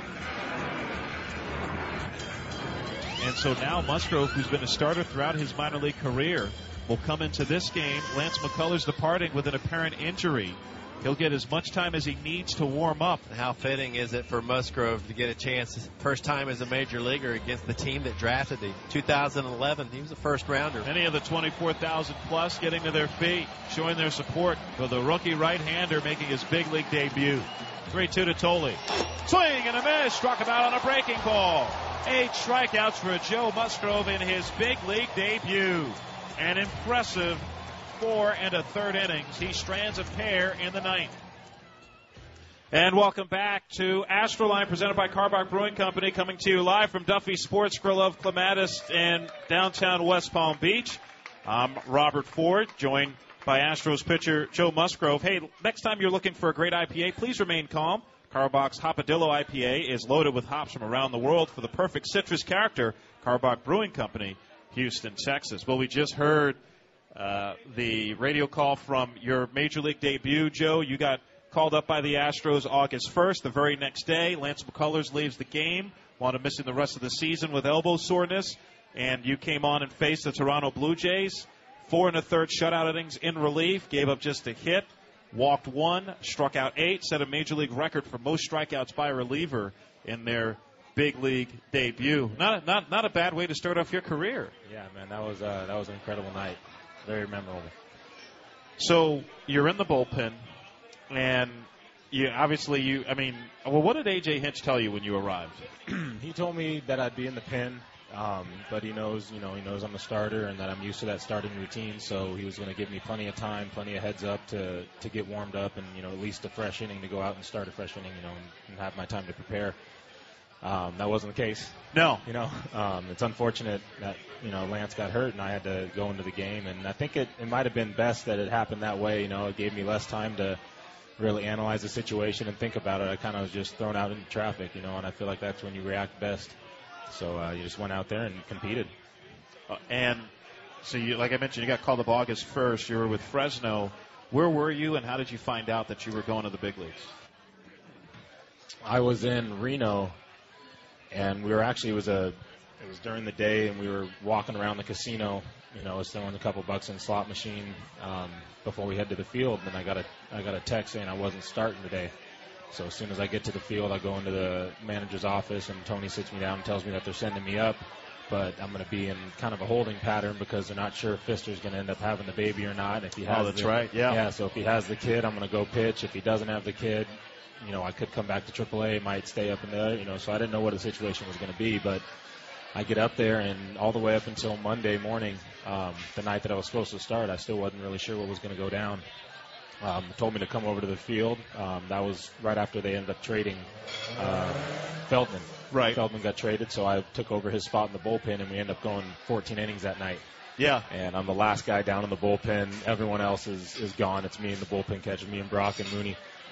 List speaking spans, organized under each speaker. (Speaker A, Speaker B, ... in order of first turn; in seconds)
Speaker A: 3.2-13.2, 20.8-41.2, 42.7-66.6, 67.1-94.5, 98.8-100.4, 101.1-105.7, 121.9-122.2, 139.7-140.3, 140.8-147.1, 173.3-174.2, 195.7-196.0, 200.6-200.9
Speaker B: 13.3-20.9
Speaker C: 94.7-97.7, 105.9-119.8, 120.6-130.6, 131.2-136.6, 137.1-138.9, 148.8-150.2, 151.1-162.1, 162.7-182.0, 182.7-189.1, 189.8-200.2, 200.9-206.2